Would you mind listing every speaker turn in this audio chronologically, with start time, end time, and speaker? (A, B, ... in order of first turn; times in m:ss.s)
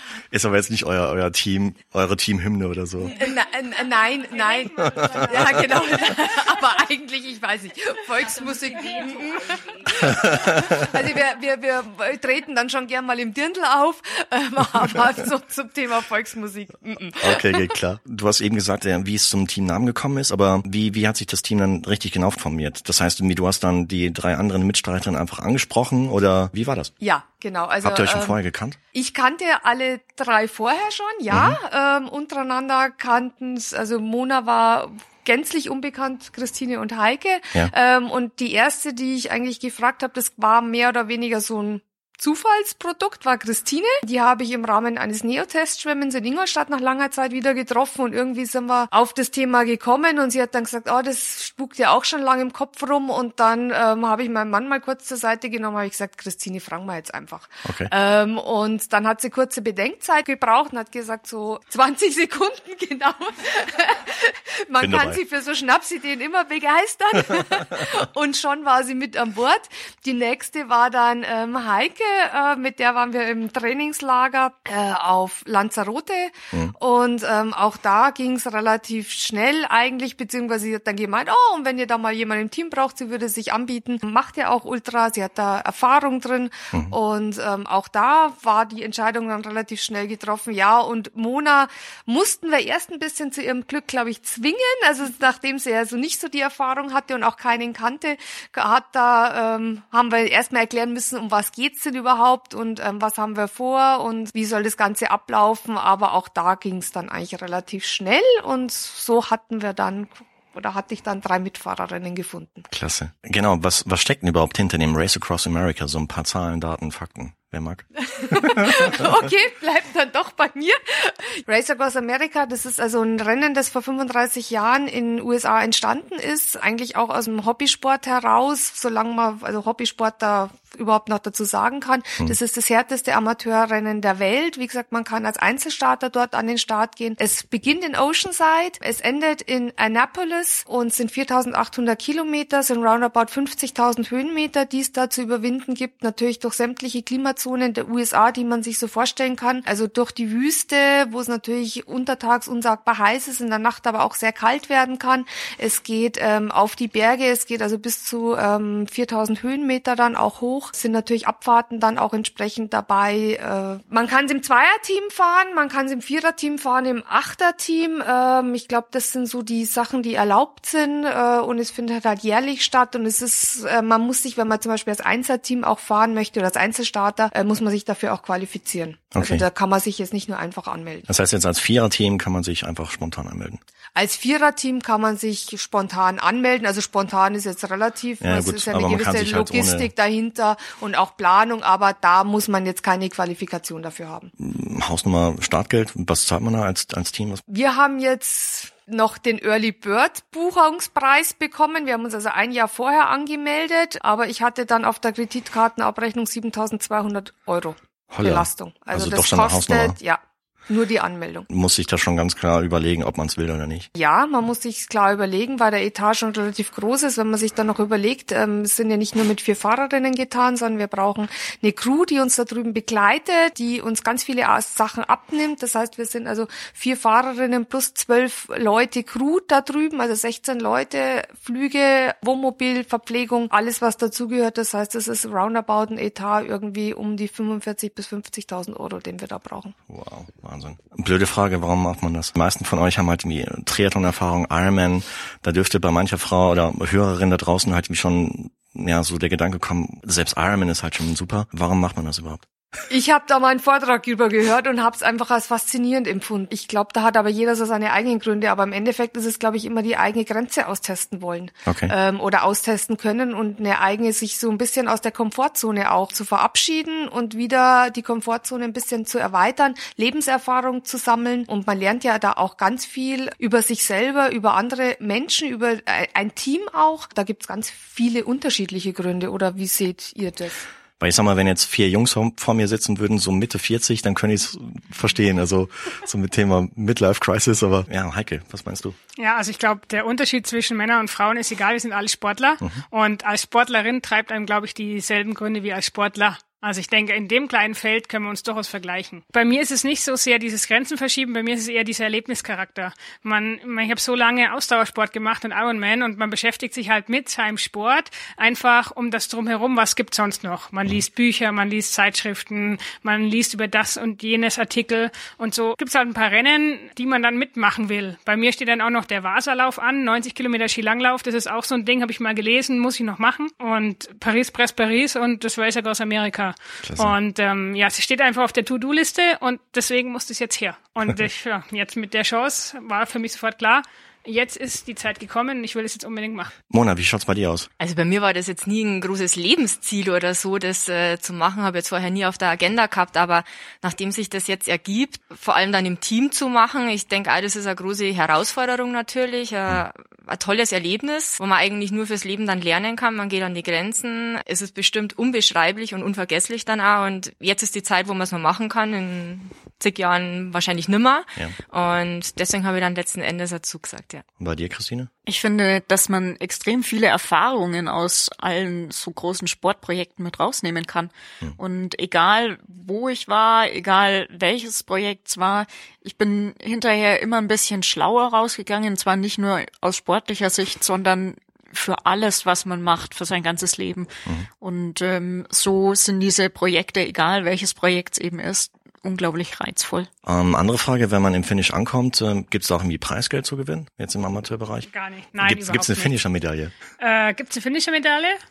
0:00.3-0:03.2 A
0:03.1-0:17.8 B
0:04.4-0:05.7 C
0:04.9-0:06.0 A
0:09.9-0:11.0 A
0:17.2-0:26.9 A
0:27.0-0:28.4 B
0:27.8-0:28.8 A
0:28.9-1:52.7 B
0:31.3-0:31.6 A
0:57.6-0:57.9 A
1:04.8-1:05.2 A
1:52.7-1:59.0 A
1:58.0-3:01.1 B
2:59.2-2:59.4 A
3:01.1-3:03.6 A
3:04.0-3:14.3 B
3:08.2-3:09.9 A
3:14.4-3:17.4 A
3:17.5-3:31.5 B
3:28.1-3:30.0 A
3:31.5-3:33.9 A
3:34.0-3:59.8 B
3:59.9-4:12.4 A
4:12.9-4:40.7 B
4:21.7-4:21.9 A
4:41.0-4:49.0 A
4:49.2-5:36.5 C
5:26.8-5:27.2 A
5:36.7-5:37.7 A
5:37.8-6:04.2 D
6:04.4-6:05.1 A
6:05.3-6:30.1 E
6:30.2-6:34.9 A
6:34.9-6:36.2 C
6:35.4-6:36.7 A
6:37.0-6:38.4 C